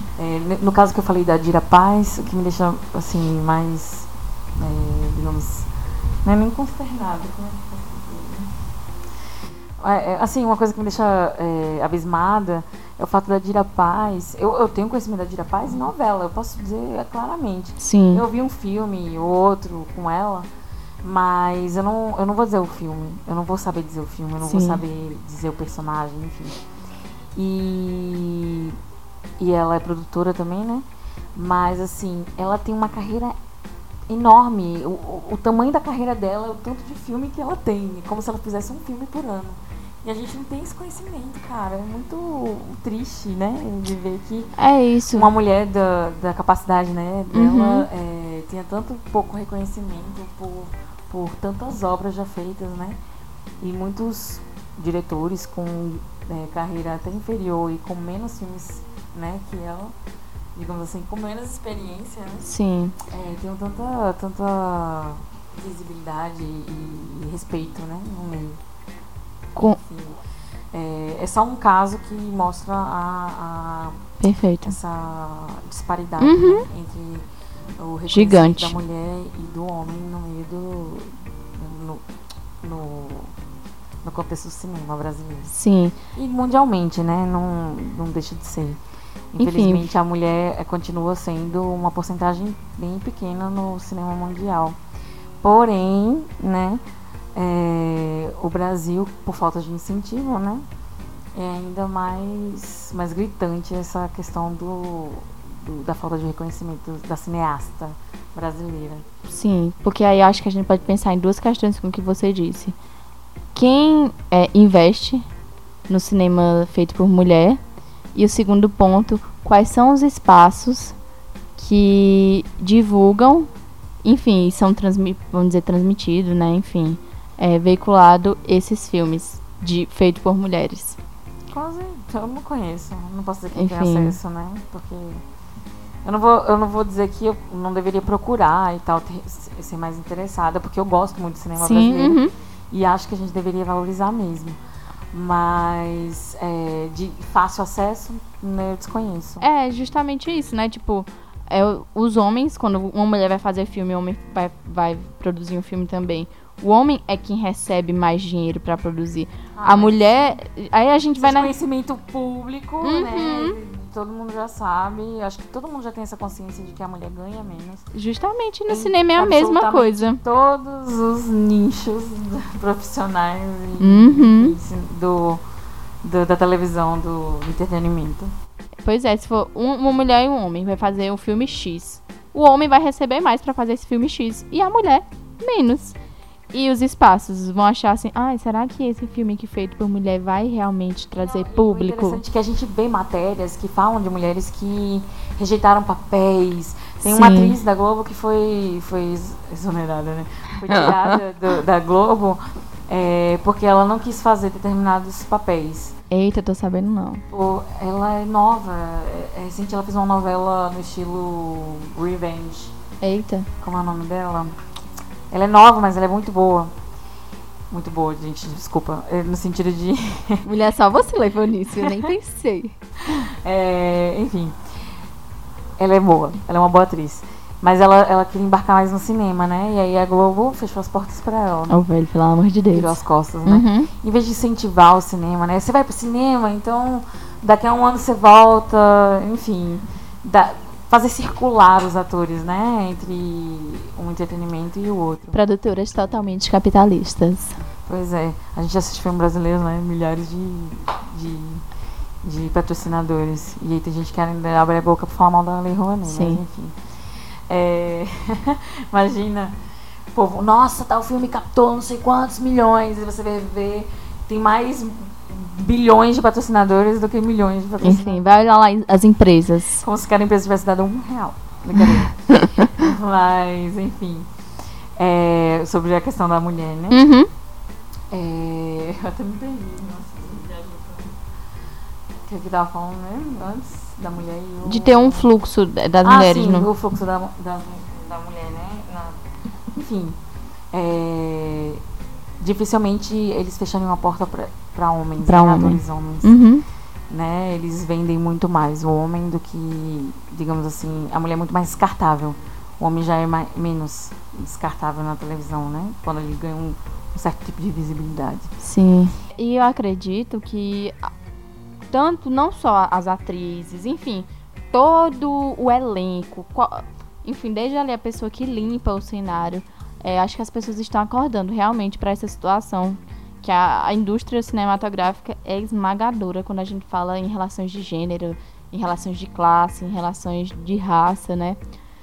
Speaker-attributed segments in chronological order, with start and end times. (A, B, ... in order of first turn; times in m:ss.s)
0:00.2-0:05.7 A
0:06.2-0:08.5 A
0:09.8-0:20.5 A
0:17.8-0:18.2 B
0:21.0-0:26.6 A
0:24.4-0:24.8 B
0:27.4-0:28.8 A
0:29.4-0:33.4 A
0:34.1-0:44.5 A
0:44.6-0:45.3 B
0:45.1-0:53.0 A
0:47.3-0:47.9 B
0:53.6-1:00.0 A
1:00.6-1:02.5 A
1:02.4-1:03.0 B
1:03.0-1:08.6 A
1:09.6-1:10.2 A
1:10.7-1:14.0 A
1:14.2-1:14.8 B
1:14.6-1:17.3 A
1:16.2-1:16.7 B
1:17.8-1:22.0 A
1:18.1-1:18.8 B
1:22.6-1:23.3 A
1:24.0-1:25.5 A
1:25.5-1:26.0 B
1:26.2-1:28.8 A
1:29.3-1:34.8 A
1:29.4-1:29.9 B
1:35.4-1:36.8 A
1:37.4-1:40.6 A
1:41.3-1:49.1 A
1:49.3-1:52.8 B
1:53.5-1:55.2 B
1:55.9-1:57.6 B
1:58.2-2:01.0 B
2:01.6-2:03.5 B
2:04.0-2:11.0 B
2:11.5-2:15.2 A
2:13.5-2:14.2 B
2:16.0-2:22.2 A
2:21.6-2:22.3 B
2:22.7-2:24.6 A
2:25.1-2:29.5 A
2:29.4-2:41.5 B
2:39.6-2:40.4 A
2:41.2-2:47.9 A
2:42.8-2:43.6 B
2:47.9-2:50.2 B
2:48.7-2:55.4 A
2:53.8-2:54.6 B
2:56.0-2:58.3 A
2:58.8-3:06.0 B
3:06.5-3:12.2 B
3:11.2-3:26.0 A
3:17.0-3:17.6 B
3:20.7-3:21.2 B
3:26.1-3:27.2 B
3:27.3-3:32.7 A
3:33.0-3:33.5 B
3:33.6-3:34.6 A
3:35.3-3:36.7 A
3:37.7-3:40.4 A
3:40.4-3:42.8 B
3:41.8-3:42.1 A
3:43.1-3:44.6 A
3:45.8-3:51.8 A
3:51.7-3:52.9 B
3:52.7-4:05.4 A
3:53.5-3:53.9 B
4:05.3-4:07.6 B
4:07.8-4:11.6 A
4:12.2-4:19.6 A
4:16.1-4:16.4 B
4:20.1-4:28.2 A
4:27.8-4:29.8 B
4:29.8-4:34.3 A
4:32.3-4:32.6 B
4:35.0-4:37.0 A
4:36.9-4:37.3 B
4:38.1-4:41.2 A
4:42.3-4:45.3 A
4:44.6-4:46.7 B
4:46.0-4:49.2 A
4:49.7-4:50.2 A
4:50.7-4:51.8 A
4:52.4-4:56.3 A
4:55.2-4:56.6 B
4:57.1-5:08.5 A
5:08.6-5:11.1 B
5:11.9-5:31.6 B